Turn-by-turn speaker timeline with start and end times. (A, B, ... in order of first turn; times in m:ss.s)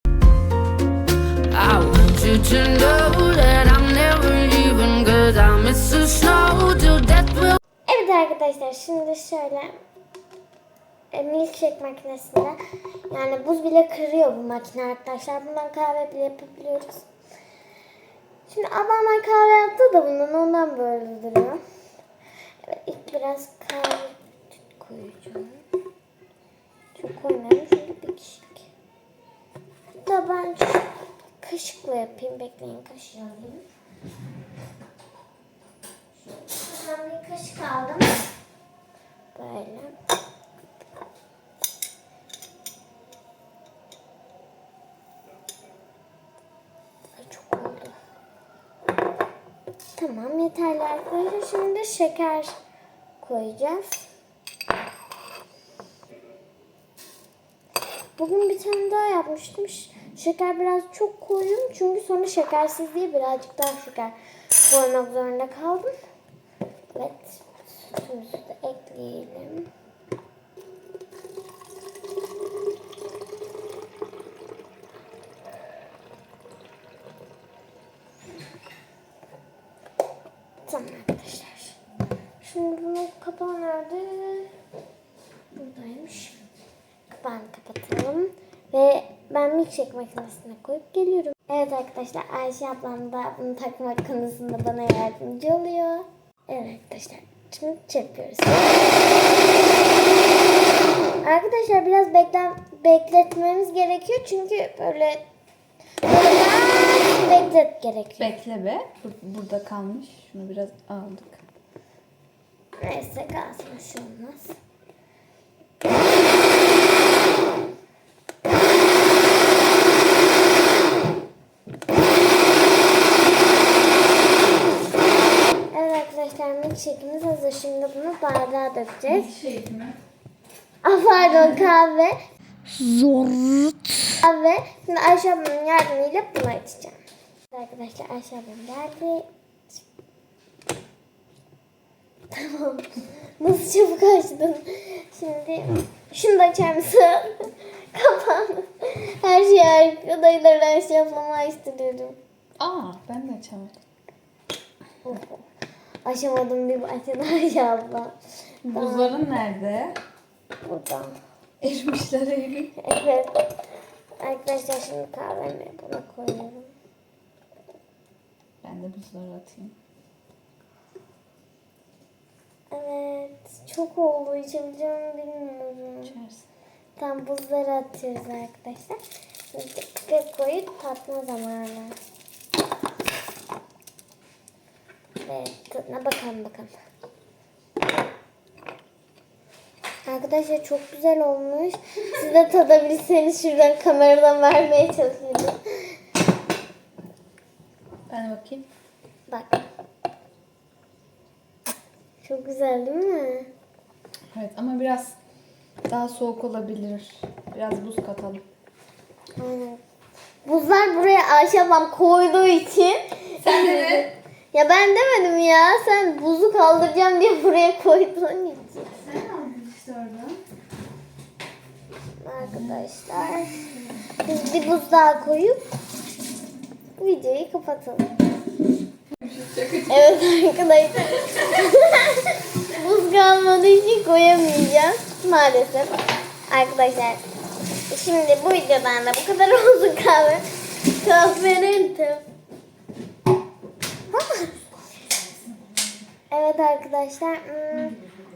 0:01.5-0:07.6 A
0:07.9-0:09.8 B
0:11.1-0:12.6 B
0:13.1-0:17.0 B
0:18.5-0:21.6 B
0:22.6-0:25.6 B
0:27.0-0:28.7 B
0:29.9-0:33.6 B
0:36.3-0:38.3 B
0:39.4-0:40.0 B
0:47.2-0:48.0 B
0:50.0-0:52.6 B
0:53.2-0:54.1 B
0:58.2-1:05.9 B
1:06.9-1:09.7 B
1:20.6-1:21.8 B
1:22.4-1:24.5 B
1:25.6-1:26.4 B
1:27.1-1:39.0 B
1:41.2-1:45.2 B
1:46.0-1:48.3 B
1:48.2-1:51.4 C
1:52.8-1:54.6 B
2:05.7-2:09.3 B
2:09.1-2:10.0 C
2:10.8-2:12.2 B
2:11.3-2:11.7 C
2:12.8-2:17.0 B
2:17.5-2:19.3 B
2:22.3-2:32.2 B
2:32.6-2:33.8 C
2:35.0-2:35.4 B
2:36.0-2:38.2 B
2:38.6-2:40.0 C
2:38.7-2:39.2 B
2:40.6-2:41.2 B
2:41.6-2:42.7 C
2:42.8-2:43.4 B
2:44.2-2:46.7 B
2:48.6-2:49.8 C
2:52.7-2:56.2 B
2:56.1-2:56.4 C
2:57.0-2:59.0 B
2:59.5-3:02.0 B
3:05.2-3:06.8 B
3:10.1-3:15.9 B
3:18.1-3:18.7 C
3:19.3-3:19.6 B
3:22.2-3:23.5 B
3:24.3-3:25.2 C
3:25.9-3:28.4 C
3:29.4-3:29.8 B
3:30.4-3:38.9 B
3:33.4-3:34.1 C
3:38.9-3:40.4 C
3:42.2-3:43.6 B
3:44.3-3:45.6 B
3:47.0-3:48.2 B
3:49.2-3:50.1 C
3:49.9-3:56.0 B
3:56.5-3:57.2 B
3:57.9-4:02.2 B
4:04.1-4:04.5 B
4:06.3-4:08.0 B